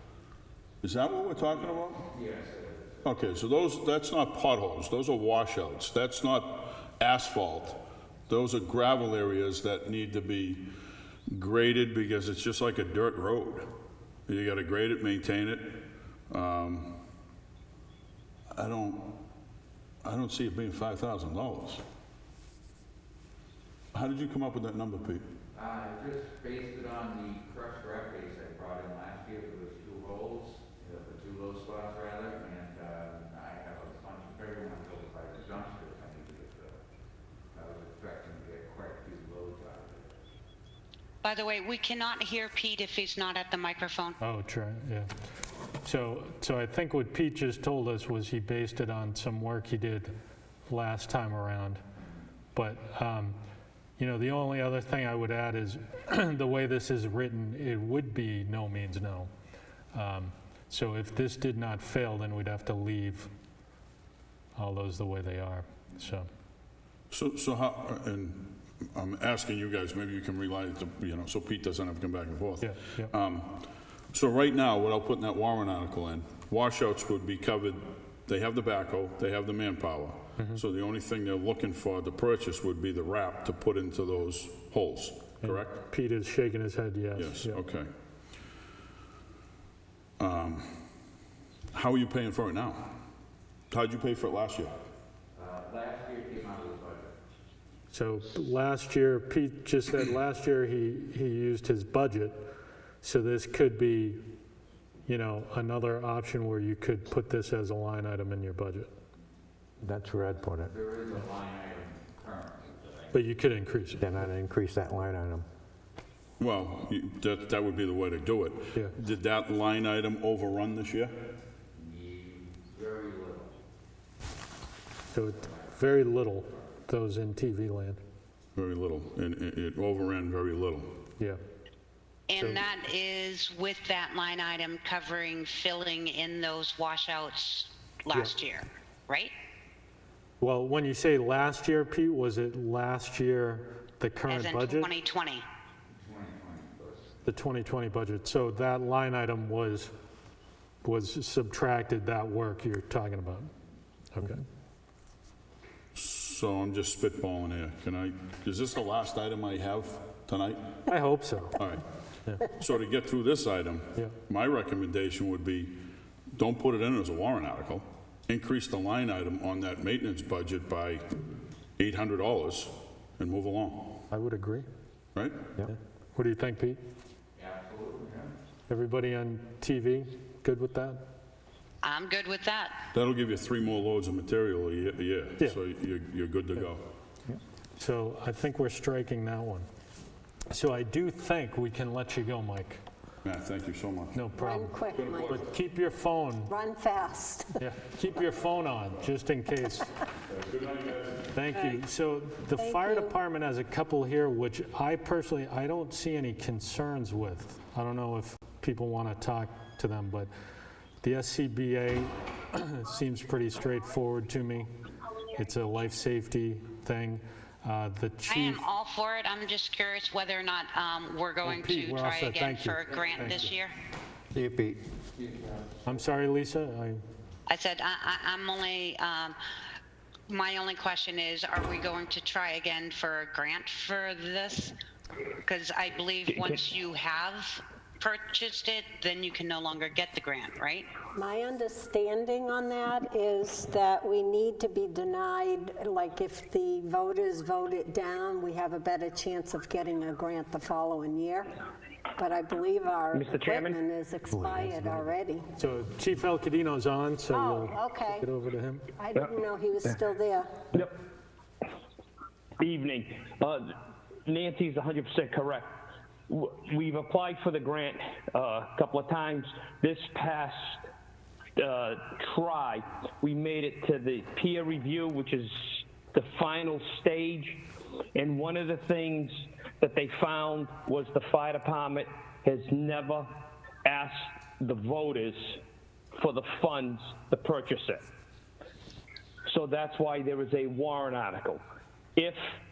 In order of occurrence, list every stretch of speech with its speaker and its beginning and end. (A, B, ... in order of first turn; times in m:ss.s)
0:00.8-0:02.1 A
0:01.6-0:03.0 B
0:03.0-0:10.7 A
0:11.3-0:13.7 A
0:14.3-0:17.0 A
0:18.6-0:19.2 A
0:20.0-0:21.8 A
0:23.9-0:25.3 A
0:25.6-0:36.8 B
0:37.5-0:40.1 B
0:41.2-0:44.2 C
0:44.2-0:45.1 D
0:45.8-0:50.1 D
0:50.7-0:51.8 D
0:52.5-0:53.4 D
0:54.0-0:59.3 D
0:59.9-1:03.3 D
1:04.6-1:06.3 D
1:07.1-1:25.7 A
1:12.6-1:13.1 D
1:25.4-1:27.6 D
1:27.2-1:27.9 A
1:30.2-1:30.8 A
1:31.7-1:32.9 A
1:33.7-1:34.7 A
1:35.3-1:37.1 B
1:37.9-1:42.4 D
1:43.0-1:44.2 D
1:45.1-1:48.9 D
1:49.8-1:50.7 E
1:50.6-1:53.3 B
1:53.1-1:54.1 D
1:54.0-1:55.5 E
1:56.4-2:01.1 A
2:01.7-2:03.6 B
2:05.1-2:08.0 D
2:05.2-2:06.4 B
2:08.5-2:11.0 A
2:12.3-2:19.3 C
2:20.4-2:24.9 D
2:24.3-2:25.4 C
2:25.9-2:27.1 B
2:27.2-2:29.9 D
2:30.8-2:33.5 D
2:34.1-2:34.4 D
2:35.9-2:40.8 A
2:40.9-2:41.6 D
2:41.6-2:41.8 A
2:42.4-2:45.8 A
2:46.4-2:51.0 A
2:51.8-2:54.0 A
2:54.1-2:54.7 D
2:55.1-2:55.4 A
2:55.7-2:56.8 D
2:57.4-2:58.3 B
2:58.7-3:01.0 D
3:01.8-3:02.7 C
3:02.9-3:06.8 A
3:07.8-3:09.7 D
3:10.5-3:12.8 D
3:13.2-3:14.2 A
3:14.1-3:14.7 D
3:14.4-3:15.4 F
3:15.2-3:16.5 D
3:16.5-3:17.6 F
3:17.6-3:20.0 D
3:21.3-3:30.3 D
3:22.6-3:23.1 F
3:31.0-3:34.7 D
3:35.4-3:38.7 D
3:38.3-3:43.8 C
3:41.4-3:43.5 D
3:44.3-3:44.8 E
3:45.2-3:46.0 B
3:45.8-3:47.0 D
3:47.5-3:49.4 C
3:50.3-3:54.7 C
3:55.4-4:00.9 C
4:01.1-4:11.5 F
4:12.1-4:15.5 F
4:13.1-4:13.8 G
4:14.3-4:15.1 E
4:15.6-4:18.9 D
4:17.3-4:18.3 F
4:18.9-4:20.7 F
4:22.6-4:23.7 G
4:24.2-4:25.7 G
4:26.3-4:30.8 G
4:31.6-4:37.6 G
4:38.1-4:43.3 G
4:43.8-4:45.6 G
4:46.1-4:48.0 G
4:49.4-4:51.6 G